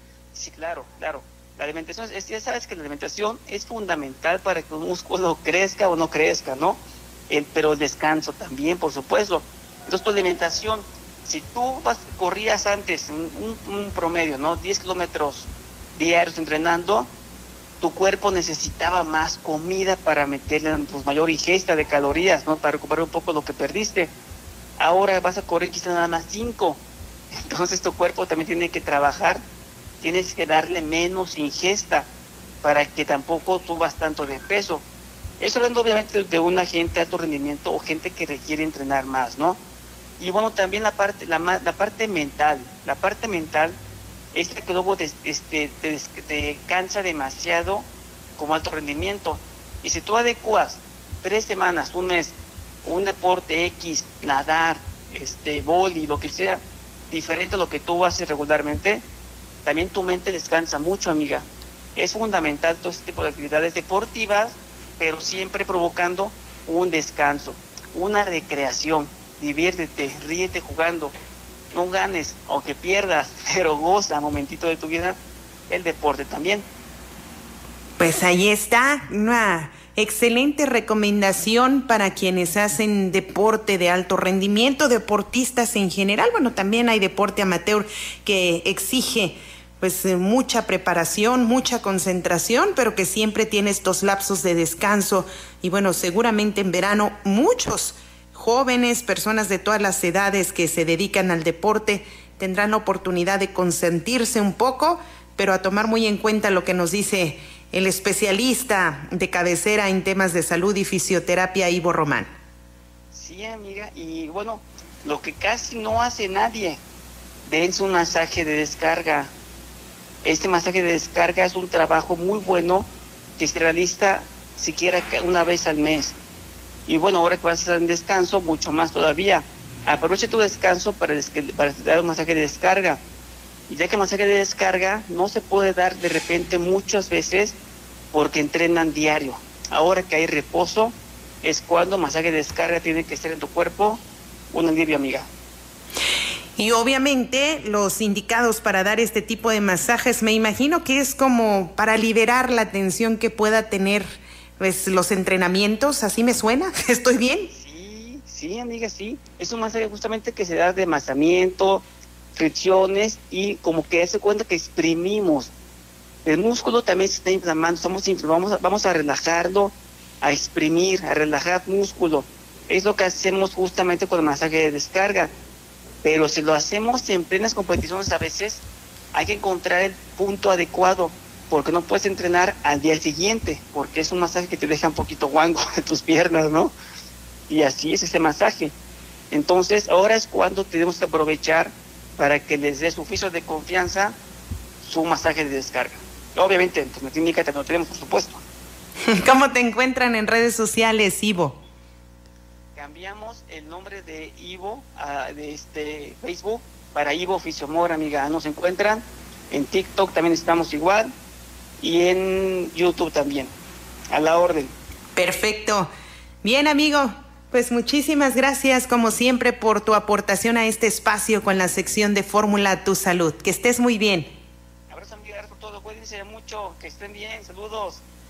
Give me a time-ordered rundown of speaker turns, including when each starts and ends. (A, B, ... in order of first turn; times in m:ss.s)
0:00.3-0:17.1 A
0:17.8-0:24.1 A
0:24.8-0:26.8 A
0:27.3-0:29.4 A
0:30.0-0:32.1 A
0:32.6-0:34.8 A
0:35.4-0:39.6 A
0:40.2-0:43.8 A
0:44.3-0:59.0 A
0:59.6-1:11.1 A
1:11.7-1:15.2 A
1:15.7-1:16.7 A
1:18.0-1:52.3 B
1:53.1-1:56.8 A
1:57.5-1:59.3 A
2:00.2-2:06.2 A
2:06.9-2:13.0 A
2:13.7-2:17.6 A
2:18.1-2:25.3 A
2:26.6-2:34.1 B
2:34.6-2:37.5 B
2:37.5-2:45.5 A
2:46.2-2:55.3 A
2:56.0-3:06.8 A
3:07.5-3:08.7 A
3:09.3-3:14.2 A
3:14.8-3:18.4 A
3:19.1-3:21.6 B
3:22.8-3:31.1 A
3:31.8-3:33.5 A
3:34.1-3:34.8 A
3:35.2-3:35.9 B
3:36.4-3:44.3 B
3:44.9-3:48.0 A